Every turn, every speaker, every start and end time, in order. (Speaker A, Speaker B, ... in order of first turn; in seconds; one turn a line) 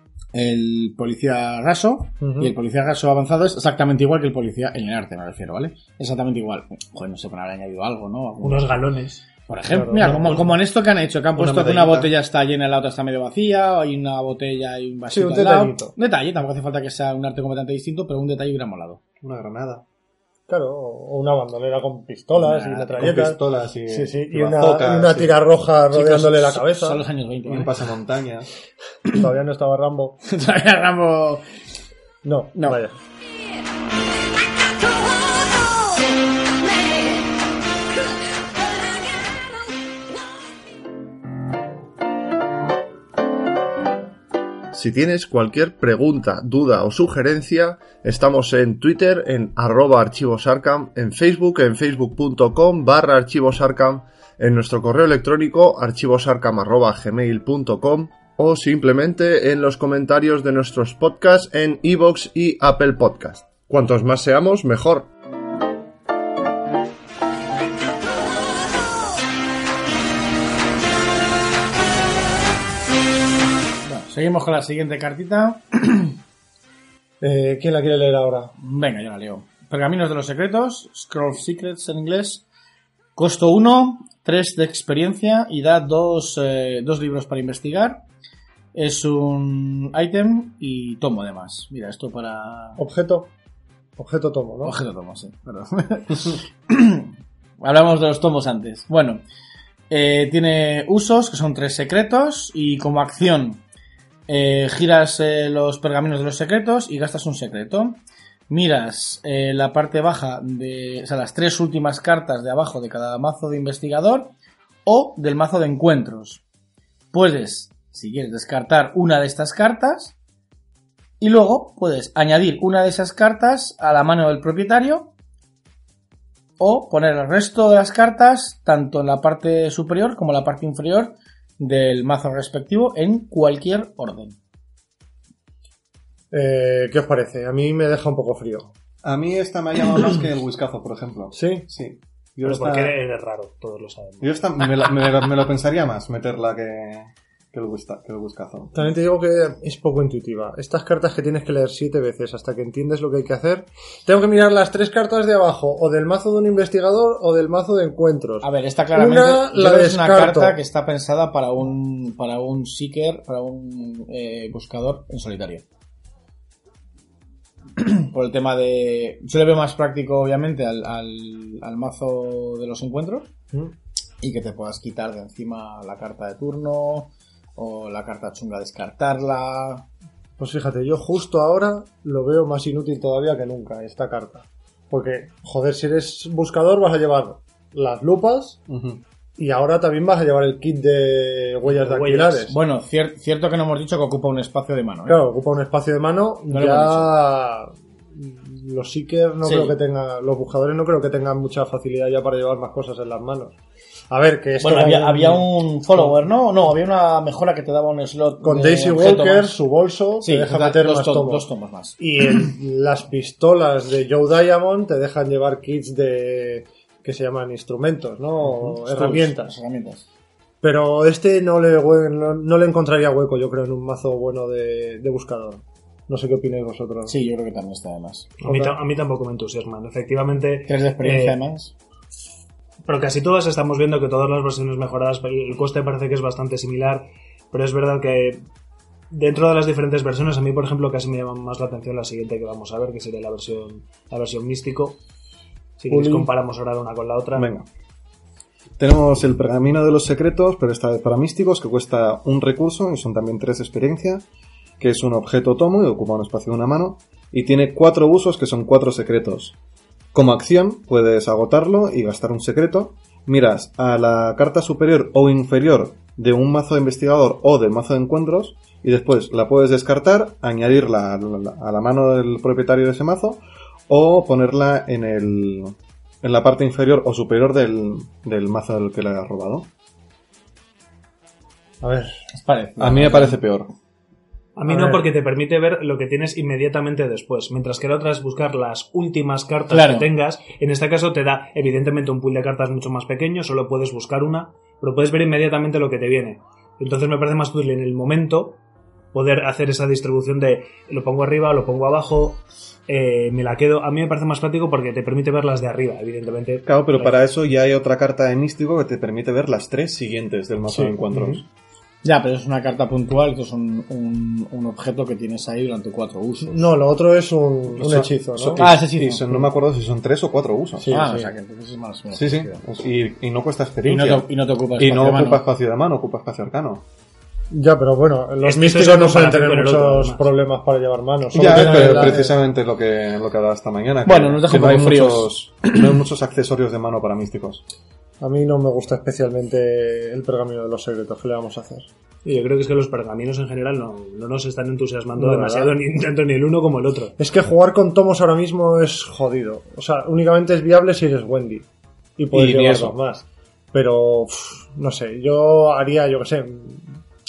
Speaker A: 0.3-8.8
Speaker B: 2.2-2.5
Speaker C: 8.4-9.2
Speaker A: 9.3-19.0
Speaker B: 9.7-10.4
Speaker D: 11.3-12.1
Speaker B: 15.1-15.9
Speaker D: 19.2-19.8
Speaker B: 20.5-27.0
Speaker A: 22.4-23.1
Speaker D: 23.0-25.4
Speaker A: 25.9-27.7
Speaker D: 27.4-28.5
Speaker B: 29.1-30.2
Speaker A: 30.2-31.4
Speaker B: 32.2-33.0
Speaker A: 32.5-32.8
Speaker E: 44.7-65.1
Speaker A: 73.8-76.2
Speaker B: 77.2-78.5
Speaker A: 78.6-82.4
Speaker A: 83.2-88.0
Speaker A: 88.7-92.8
Speaker B: 92.8-93.3
Speaker B: 94.0-94.8
Speaker A: 94.6-99.2
Speaker A: 99.9-103.6
Speaker A: 104.3-114.3
Speaker A: 114.8-116.4
Speaker A: 117.1-120.2
Speaker A: 121.2-125.1
Speaker A: 126.6-134.4
Speaker B: 136.3-138.7
Speaker D: 139.0-142.9
Speaker B: 141.3-141.7
Speaker C: 142.4-144.4
Speaker D: 144.2-148.7
Speaker B: 148.7-160.6
Speaker A: 158.4-165.6
Speaker A: 167.8-173.3
Speaker A: 174.2-179.9
Speaker B: 180.4-188.6
Speaker D: 188.7-189.0
Speaker B: 189.4-192.5
Speaker C: 191.7-192.4
Speaker A: 192.5-195.2
Speaker B: 195.1-203.6
Speaker A: 196.5-197.1
Speaker A: 199.4-199.8
Speaker B: 204.1-206.1
Speaker A: 204.6-209.6
Speaker B: 208.4-211.5
Speaker A: 210.2-212.5
Speaker B: 212.0-219.5
Speaker A: 218.4-220.1
Speaker B: 220.6-227.1
Speaker A: 227.1-228.3
Speaker C: 228.4-231.4
Speaker B: 228.4-228.7
Speaker A: 230.7-231.7
Speaker C: 232.8-238.4
Speaker C: 239.1-245.0
Speaker C: 245.8-247.5
Speaker B: 245.9-246.3
Speaker D: 247.3-247.7
Speaker D: 248.8-254.2
Speaker D: 254.8-259.6
Speaker D: 260.1-279.7
Speaker B: 281.8-282.2
Speaker A: 282.3-283.4
Speaker D: 282.8-283.7
Speaker C: 284.6-298.6
Speaker B: 284.7-285.1
Speaker A: 289.7-290.1
Speaker C: 299.1-307.1
Speaker D: 306.6-311.4
Speaker B: 310.7-311.4
Speaker A: 312.0-316.6
Speaker B: 316.4-318.6
Speaker D: 317.7-320.9
Speaker A: 318.6-319.5
Speaker B: 320.8-321.3
Speaker A: 320.9-322.6
Speaker D: 322.1-324.3
Speaker A: 323.9-325.4
Speaker D: 324.8-326.9
Speaker B: 327.5-332.3
Speaker C: 328.4-330.3
Speaker D: 331.3-337.6
Speaker A: 334.0-335.9
Speaker B: 338.2-341.9
Speaker C: 342.2-347.1
Speaker B: 345.2-345.7
Speaker B: 347.2-357.0
Speaker D: 352.3-352.9